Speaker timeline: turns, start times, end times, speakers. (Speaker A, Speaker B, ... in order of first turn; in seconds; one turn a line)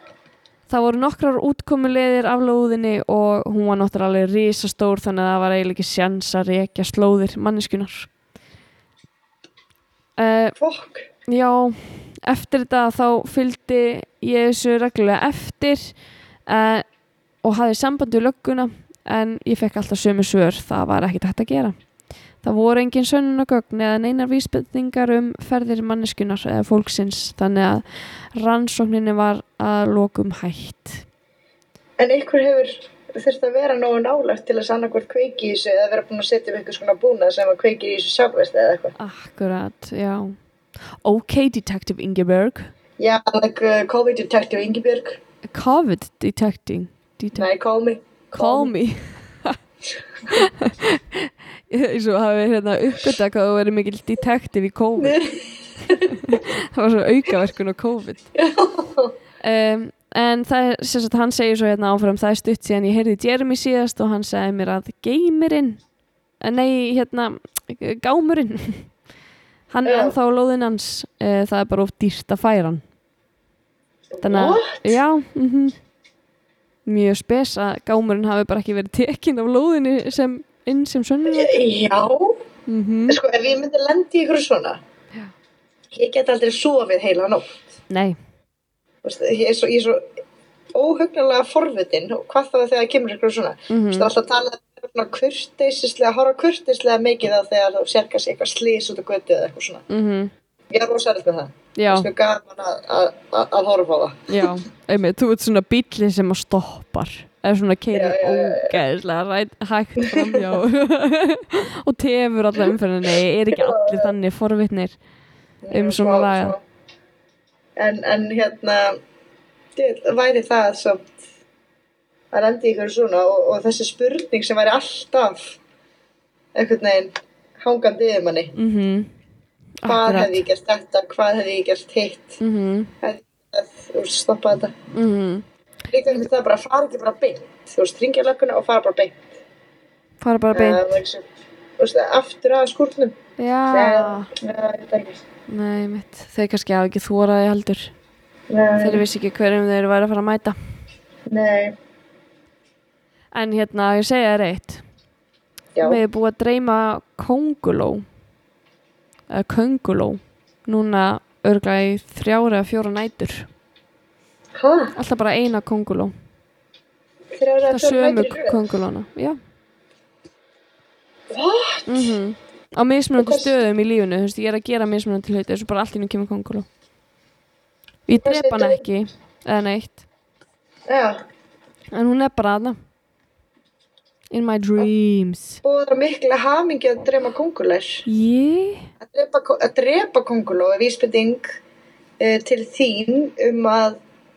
Speaker A: 0.7-8.1
Speaker A: 10.2-10.6
Speaker B: 10.6-11.1
Speaker A: 11.3-15.9
Speaker A: 16.5-16.9
Speaker A: 17.4-21.8
Speaker A: 22.4-31.1
Speaker B: 32.0-39.0
Speaker A: 39.0-40.4
Speaker A: 41.0-42.7
Speaker B: 43.0-45.2
Speaker A: 45.5-47.5
Speaker B: 47.4-48.7
Speaker A: 48.3-49.6
Speaker A: 50.3-55.2
Speaker B: 55.0-56.2
Speaker A: 56.0-58.3
Speaker B: 58.4-59.1
Speaker A: 59.4-65.8
Speaker A: 66.4-68.9
Speaker A: 69.7-72.8
Speaker B: 69.9-70.1
Speaker B: 74.1-75.0
Speaker A: 74.2-75.8
Speaker A: 76.9-81.5
Speaker B: 81.3-82.4
Speaker A: 82.7-83.2
Speaker B: 83.1-84.8
Speaker B: 85.9-87.6
Speaker A: 87.9-88.2
Speaker B: 89.0-90.1
Speaker B: 90.7-99.8
Speaker A: 93.7-94.1
Speaker A: 99.9-100.3
Speaker B: 100.7-104.5
Speaker A: 101.8-102.1
Speaker A: 104.3-115.0
Speaker B: 107.9-108.8
Speaker B: 110.0-110.6
Speaker B: 113.5-114.1
Speaker B: 115.6-116.6
Speaker A: 115.7-116.5
Speaker B: 117.8-119.0
Speaker B: 119.8-121.1
Speaker B: 122.3-125.6
Speaker B: 126.5-128.5
Speaker A: 128.6-129.1
Speaker A: 129.8-130.4
Speaker B: 129.9-132.4
Speaker A: 132.4-132.9
Speaker B: 133.0-134.8
Speaker A: 134.9-135.4
Speaker B: 135.9-139.3
Speaker A: 140.2-141.0
Speaker B: 140.5-141.2
Speaker B: 141.8-143.2
Speaker A: 143.4-144.3
Speaker B: 143.7-145.2
Speaker A: 145.5-147.9
Speaker B: 148.5-149.0
Speaker A: 148.8-150.6
Speaker B: 151.3-151.8
Speaker A: 153.3-154.8
Speaker B: 155.8-156.0
Speaker A: 155.8-158.1
Speaker A: 159.3-163.5
Speaker B: 164.6-164.9
Speaker A: 164.9-166.1
Speaker B: 167.3-168.6
Speaker A: 167.7-169.4
Speaker B: 171.3-172.1
Speaker A: 171.9-176.7
Speaker B: 173.2-173.5
Speaker A: 178.1-180.1
Speaker B: 178.2-178.8
Speaker B: 180.9-181.2
Speaker A: 181.9-182.8
Speaker A: 184.3-185.6
Speaker B: 185.6-188.1
Speaker A: 188.1-188.9
Speaker B: 189.0-191.6
Speaker B: 192.2-194.0